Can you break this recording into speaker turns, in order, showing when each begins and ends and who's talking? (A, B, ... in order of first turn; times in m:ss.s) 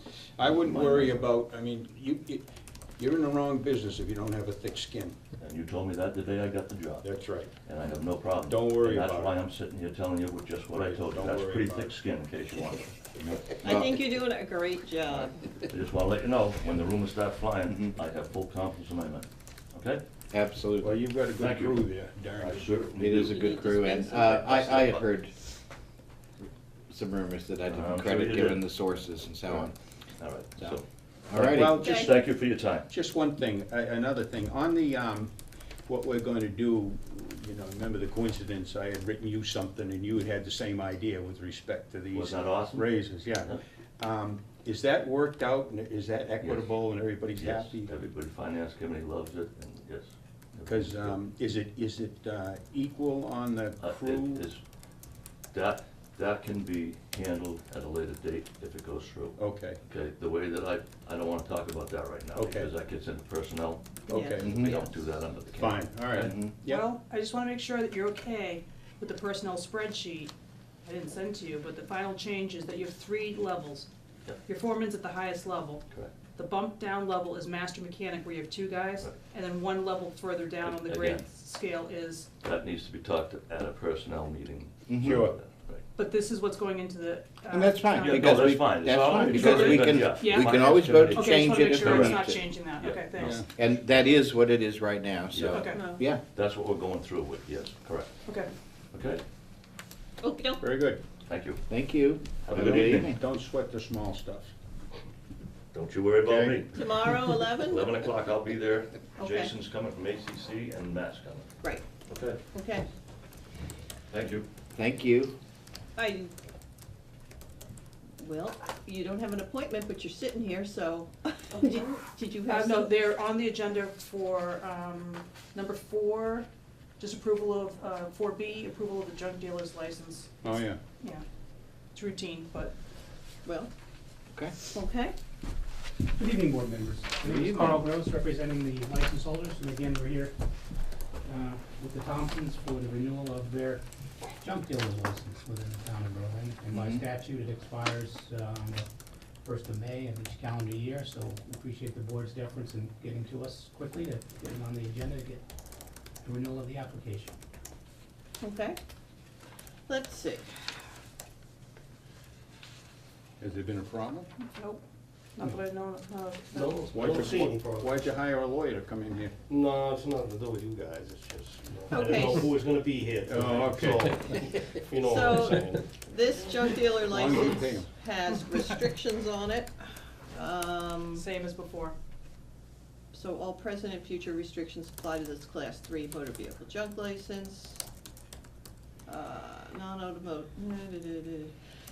0:00.4-0:02.4 A
0:00.4-0:01.3 B
0:03.0-0:05.2 A
0:05.4-0:07.0 B
0:07.0-0:07.5 A
0:07.6-0:13.8 B
0:08.5-0:09.3 A
0:10.7-0:11.9 A
0:13.6-0:15.4 C
0:15.0-0:20.0 B
0:20.3-0:21.0 D
0:20.8-0:22.7 A
0:21.4-0:21.8 B
0:22.4-0:23.4 B
0:23.0-0:25.3 D
0:23.1-0:24.9 C
0:24.3-0:25.1 B
0:26.9-0:29.7 D
0:27.7-0:28.6 B
0:30.2-0:32.9 B
0:31.3-0:31.7 D
0:31.3-0:32.1 A
0:31.8-0:32.2 C
0:32.9-0:35.3 A
0:35.8-0:47.9 A
0:42.1-0:42.9 B
0:46.4-0:46.7 B
0:47.3-0:51.2 B
0:50.6-0:54.4 A
0:53.8-0:54.6 B
0:55.5-1:06.3 B
0:59.4-0:59.8 A
1:02.3-1:02.7 A
1:04.1-1:04.8 A
1:04.1-1:04.9 C
1:04.4-1:04.8 D
1:05.6-1:06.8 A
1:06.2-1:06.5 D
1:06.6-1:10.3 E
1:10.8-1:13.9 E
1:14.4-1:22.3 E
1:20.6-1:21.2 B
1:22.4-1:25.8 B
1:24.9-1:25.2 D
1:25.0-1:25.4 A
1:25.9-1:28.4 E
1:27.5-1:32.4 D
1:28.0-1:33.4 B
1:29.3-1:30.6 E
1:31.1-1:33.4 E
1:33.2-1:33.5 A
1:33.6-1:36.2 D
1:35.3-1:38.2 B
1:35.5-1:35.9 E
1:35.7-1:36.0 C
1:38.2-1:38.5 E
1:38.9-1:39.2 B
1:40.2-1:40.6 C
1:40.6-1:41.0 A
1:41.3-1:41.6 B
1:41.7-1:43.2 D
1:42.4-1:43.1 B
1:42.5-1:44.5 A
1:45.7-1:51.5 B
1:46.3-1:46.6 D
1:46.7-1:48.0 C
1:49.2-1:49.5 C
1:52.1-1:52.4 B
1:52.5-1:52.8 C
1:54.1-1:54.5 B
1:54.7-1:55.3 D
1:56.0-1:56.3 C
1:58.2-2:03.0 C
2:02.5-2:06.5 E
2:07.0-2:10.3 E
2:10.4-2:10.8 A
2:11.9-2:12.7 E
2:13.4-2:13.7 C
2:14.6-2:15.1 C
2:16.1-2:20.4 F
2:17.3-2:17.8 D
2:21.2-2:28.9 F
2:29.4-2:35.4 F
2:36.2-2:37.4 F
2:38.4-2:38.8 C
2:39.9-2:40.6 C
2:43.4-2:44.3 A
2:44.6-2:44.8 E
2:45.4-2:46.9 E
2:46.5-2:48.1 G
2:46.9-2:49.3 A
2:49.5-2:55.9 G
2:51.9-2:52.5 C
2:53.3-2:54.1 A
2:55.0-2:59.7 C
2:57.0-2:57.9 A
3:00.3-3:01.2 C
3:01.1-3:02.0 E
3:03.1-3:07.8 C
3:09.1-3:11.5 C